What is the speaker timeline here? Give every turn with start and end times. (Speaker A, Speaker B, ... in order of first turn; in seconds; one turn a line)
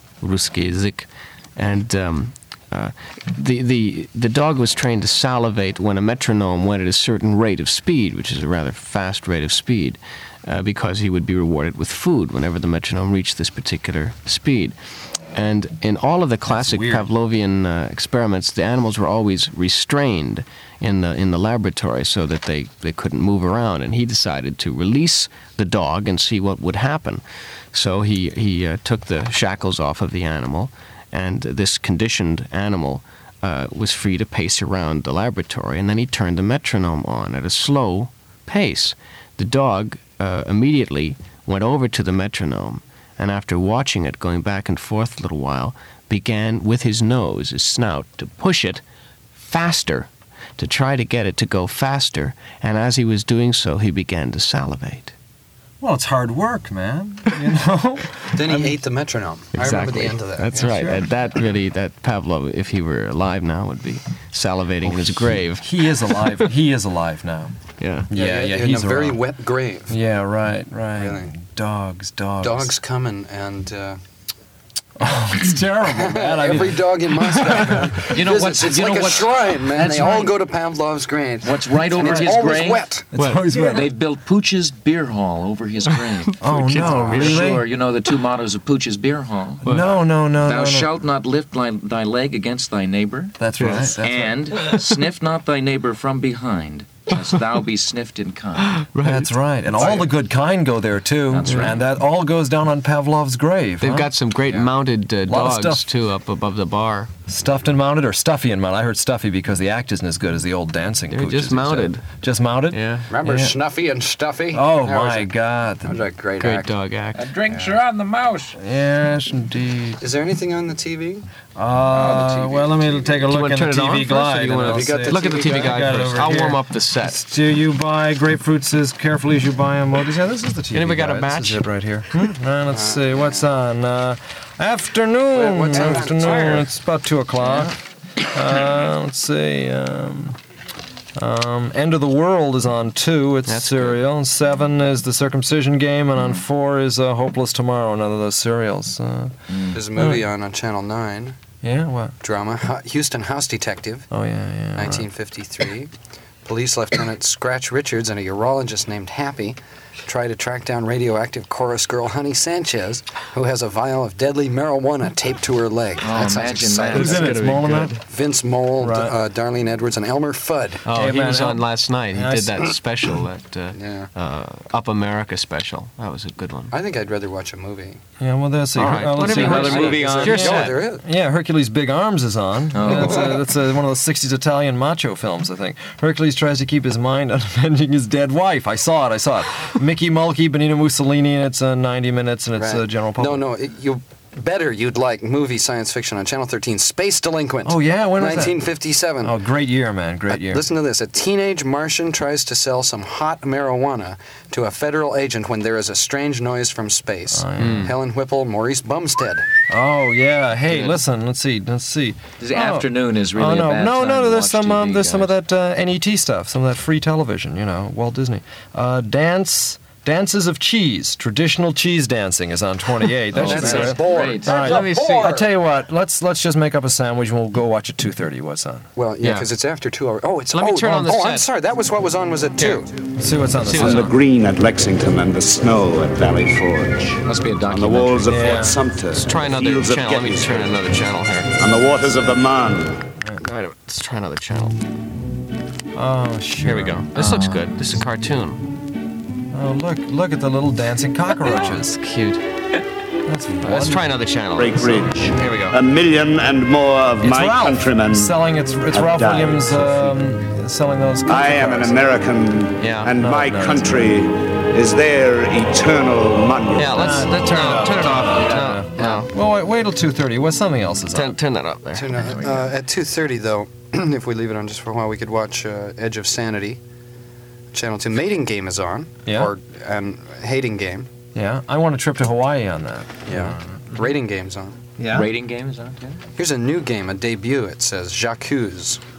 Speaker A: 0.2-14.7
Speaker A: 15.3-48.8
Speaker B: 16.5-17.1
Speaker A: 49.4-55.1
Speaker B: 55.8-58.8
Speaker C: 58.3-60.8
Speaker A: 59.5-66.5
Speaker B: 60.5-61.1
Speaker B: 64.8-67.6
Speaker A: 67.8-68.1
Speaker B: 68.1-69.2
Speaker C: 68.1-70.0
Speaker B: 69.9-72.8
Speaker C: 70.9-71.3
Speaker C: 72.4-74.0
Speaker B: 75.0-78.2
Speaker C: 75.8-83.1
Speaker D: 78.1-80.3
Speaker D: 81.4-82.9
Speaker B: 82.0-82.4
Speaker A: 83.2-83.6
Speaker B: 83.2-83.9
Speaker D: 83.5-89.7
Speaker A: 86.3-87.5
Speaker B: 86.4-87.6
Speaker B: 89.7-90.9
Speaker D: 90.2-98.8
Speaker B: 93.4-94.4
Speaker A: 93.6-94.0
Speaker A: 98.8-99.3
Speaker B: 99.0-104.1
Speaker D: 101.3-101.9
Speaker A: 103.8-107.1
Speaker B: 105.2-105.9
Speaker B: 107.3-113.5
Speaker A: 111.1-112.0
Speaker A: 112.7-113.1
Speaker C: 113.1-115.3
Speaker B: 114.5-116.0
Speaker C: 115.8-116.7
Speaker A: 116.4-117.2
Speaker D: 117.2-118.6
Speaker B: 118.6-120.0
Speaker C: 120.0-121.2
Speaker B: 121.6-137.8
Speaker C: 121.9-123.2
Speaker A: 123.3-127.2
Speaker C: 124.7-126.1
Speaker A: 130.7-131.6
Speaker C: 132.7-133.5
Speaker C: 135.3-136.7
Speaker B: 138.3-140.4
Speaker B: 141.2-149.3
Speaker A: 143.5-144.0
Speaker D: 149.5-149.8
Speaker C: 149.7-151.4
Speaker B: 149.9-150.3
Speaker B: 151.6-152.2
Speaker C: 152.2-154.1
Speaker B: 154.1-155.1
Speaker C: 154.8-155.9
Speaker C: 156.4-167.4
Speaker D: 166.0-167.6
Speaker B: 166.9-168.0
Speaker A: 167.3-167.9
Speaker C: 168.0-170.8
Speaker B: 168.8-169.2
Speaker B: 170.8-172.7
Speaker A: 170.9-176.8
Speaker C: 173.7-174.1
Speaker C: 176.7-178.0
Speaker B: 178.2-193.4
Speaker A: 178.8-180.8
Speaker D: 179.1-180.7
Speaker C: 179.2-181.1
Speaker D: 182.7-183.4
Speaker C: 182.9-183.3
Speaker C: 192.6-199.3
Speaker B: 197.6-198.6
Speaker B: 199.2-200.7
Speaker C: 200.3-209.5
Speaker B: 207.3-207.9
Speaker A: 207.6-207.9
Speaker B: 209.7-228.9
Speaker D: 210.7-211.0
Speaker D: 212.4-215.3
Speaker D: 223.3-224.7
Speaker C: 223.4-225.5
Speaker A: 224.6-225.3
Speaker C: 229.0-232.9
Speaker A: 229.2-229.5
Speaker A: 230.5-231.5
Speaker B: 232.6-234.1
Speaker A: 233.6-234.1
Speaker E: 233.7-240.8
Speaker D: 237.2-238.5
Speaker B: 238.3-238.8
Speaker A: 239.2-241.5
Speaker E: 241.5-243.0
Speaker A: 243.4-244.8
Speaker B: 245.9-247.1
Speaker A: 246.6-248.7
Speaker D: 247.2-247.7
Speaker B: 249.5-252.0
Speaker A: 251.4-252.4
Speaker B: 253.3-254.1
Speaker A: 253.6-255.8
Speaker E: 254.5-258.3
Speaker B: 257.2-262.2
Speaker E: 258.9-260.2
Speaker E: 261.3-267.2
Speaker A: 262.8-263.1
Speaker B: 263.2-264.2
Speaker A: 266.8-269.3
Speaker B: 266.9-271.4
Speaker D: 268.4-269.1
Speaker A: 271.1-272.1
Speaker C: 271.9-276.8
Speaker D: 272.1-272.7
Speaker C: 277.7-281.1
Speaker B: 279.2-279.5
Speaker B: 281.4-283.8
Speaker C: 283.3-284.8
Speaker B: 285.0-285.3
Speaker D: 285.1-286.2
Speaker C: 286.4-289.0